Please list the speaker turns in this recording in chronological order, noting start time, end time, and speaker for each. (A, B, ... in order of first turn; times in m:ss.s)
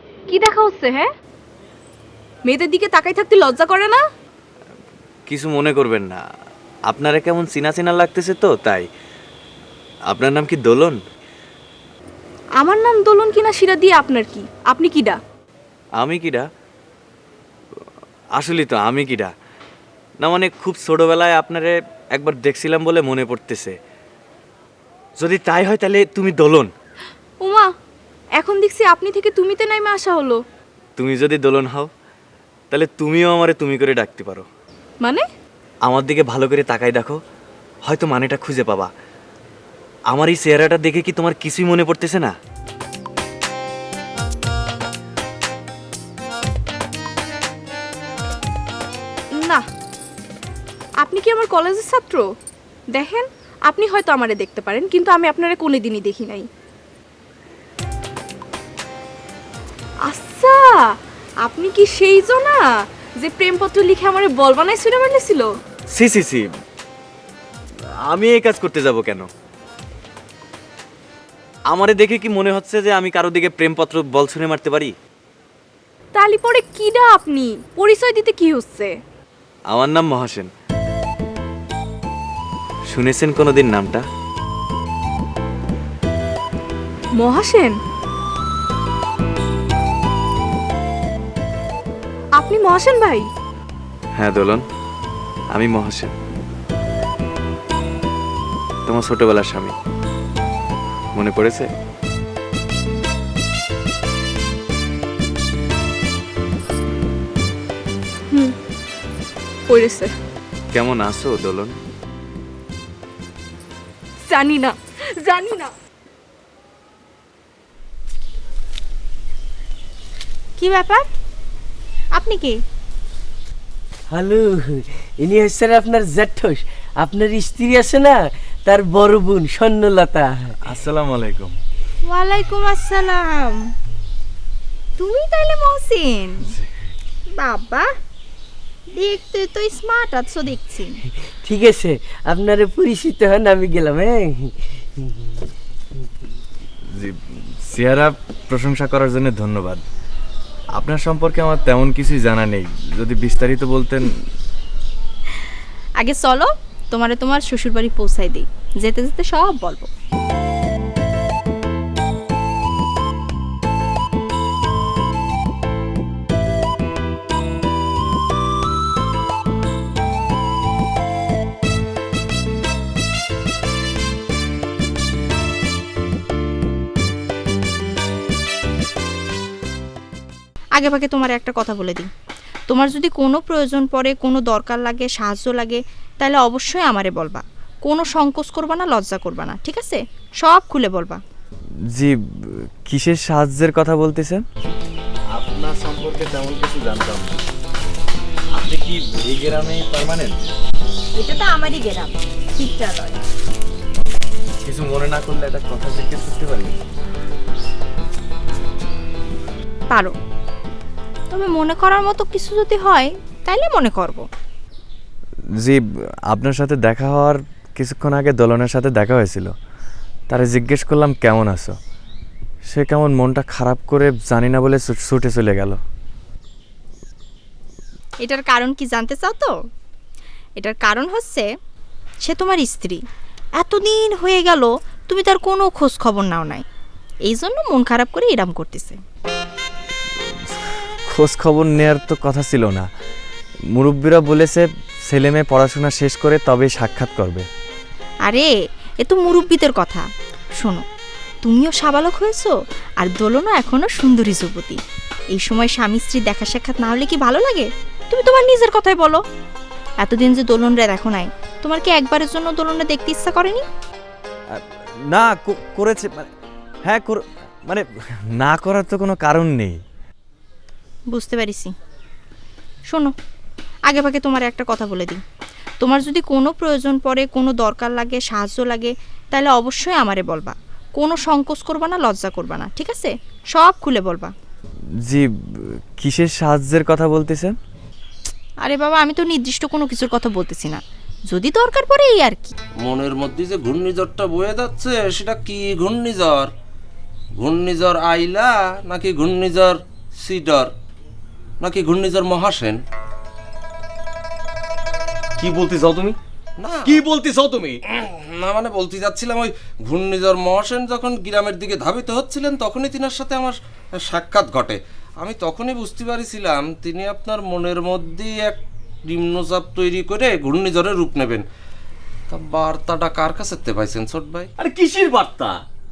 0:00.3-0:01.1 A
0:02.4-0:04.0 A
0:05.3-0:06.2 B
0:06.9-0:08.8 B
0:10.1-0:11.0 B
0:12.6-0:15.2 A
0:16.0-0:16.4 B
0:18.4-0:19.3 B
0:20.2-0:23.7 B
0:25.2-0:26.7 B
0:27.4-0:27.7 A
0:28.4-0:30.4 A
0:31.0-0:31.9 B
0:32.7-0:34.5 B
0:35.0-0:35.3 A
0:35.8-0:37.2 B
0:37.8-0:38.9 B
0:40.1-0:42.3 B
0:49.3-0:49.6 A
0:51.0-0:52.3 A
0:52.9-0:56.5 A
1:00.0-1:02.6 A
1:03.2-1:05.5 A
1:05.9-1:06.4 B
1:08.1-1:09.3 B
1:11.7-1:14.9 B
1:16.1-1:19.0 A
1:19.7-1:20.5 B
1:22.9-1:24.0 B
1:27.2-1:27.8 A
1:32.3-1:33.3 A
1:34.2-1:34.6 B
1:35.5-1:36.1 B
1:38.8-1:39.7 B
1:41.1-1:41.7 B
1:48.3-1:48.5 A
1:49.7-1:50.1 A
1:50.7-1:51.7 B
1:54.2-1:55.7 A
2:00.6-2:01.0 C
2:02.1-2:02.6 C
2:04.1-2:10.5 D
2:10.6-2:11.5 B
2:12.0-2:13.7 C
2:15.0-2:16.5 C
2:17.4-2:17.9 C
2:19.0-2:21.0 C
2:21.4-2:24.6 D
2:27.0-2:29.8 B
2:30.8-2:34.2 B
2:36.0-2:39.9 C
3:00.8-3:02.1 C
3:02.7-3:11.2 C
3:11.9-3:14.4 B
3:15.3-3:17.4 B
3:18.6-3:20.4 B
3:21.1-3:23.2 C
3:24.6-3:26.8 B
3:29.9-3:30.1 C
3:31.3-3:34.2 C
3:36.3-3:39.5 B
3:40.3-3:41.7 B
3:42.7-3:45.8 B
3:48.2-3:49.6 C
3:50.6-3:51.5 C
3:52.2-3:53.0 C
3:53.6-3:56.6 C
3:57.2-3:59.0 C
4:00.5-4:02.9 B
4:03.8-4:07.5 B
4:08.2-4:08.5 C
4:09.0-4:10.1 C
4:11.4-4:14.8 C
4:15.3-4:19.2 C
4:20.0-4:23.6 C
4:24.5-4:26.3 B
4:26.8-4:27.8 B
4:28.4-4:29.8 B
4:31.1-4:31.7 C
4:33.9-4:35.2 C
4:35.8-4:44.3 C
4:46.0-4:47.6 B
4:48.6-4:52.5 C
4:52.8-4:56.5 E
4:57.4-5:00.7 E
5:01.6-5:02.8 E
5:05.4-5:06.2 F
5:06.6-5:07.0 E
5:06.8-5:07.8 F
5:07.9-5:21.4 E
5:22.3-5:24.5 E
5:24.6-5:25.6 F